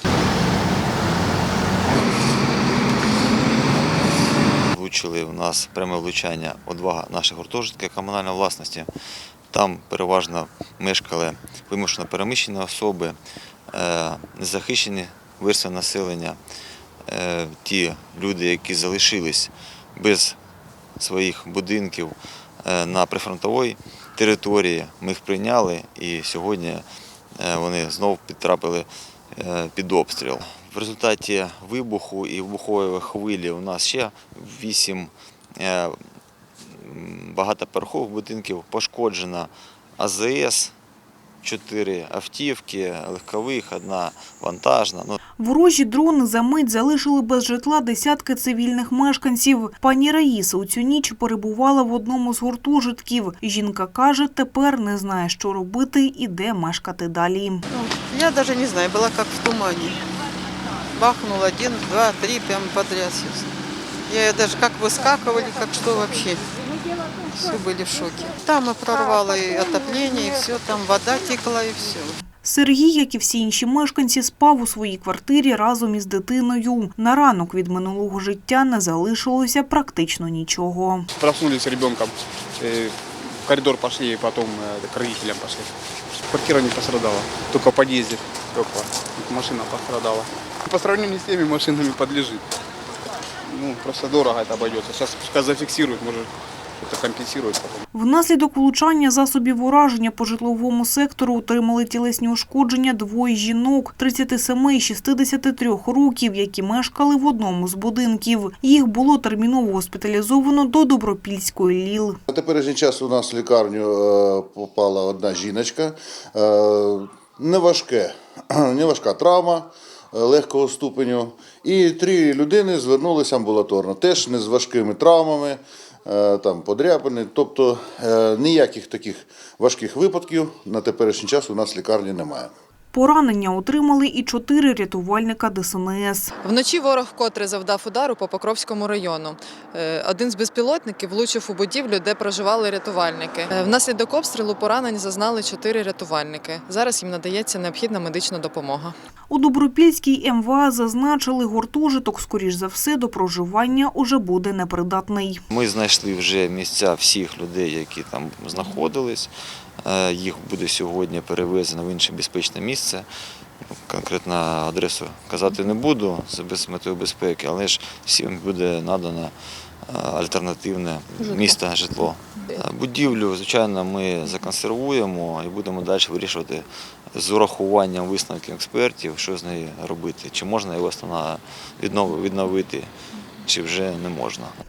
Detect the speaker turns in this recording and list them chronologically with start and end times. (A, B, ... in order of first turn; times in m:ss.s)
0:04.7-0:08.9 A
0:09.5-0:13.2 A
0:13.7-0:16.4 A
0:17.0-0:20.4 A
0:21.0-0:26.8 A
0:27.4-0:36.0 A
0:36.6-0:40.7 A
0:41.4-0:45.2 A
0:45.4-0:57.6 B
0:57.7-1:00.0 C
1:00.9-1:03.5 C
1:04.1-1:06.5 C
1:07.2-1:12.2 C
1:12.4-1:21.1 B
1:21.2-1:25.7 D
1:26.3-1:32.4 D
1:33.4-1:37.8 D
1:37.9-1:52.2 B
1:52.3-2:12.5 E
2:12.9-2:16.3 B
2:16.4-2:28.9 F
2:29.3-2:35.4 B
2:35.5-2:39.3 A
2:39.8-2:43.1 A
2:43.9-2:49.3 A
2:49.8-3:02.9 A
3:03.4-3:04.5 A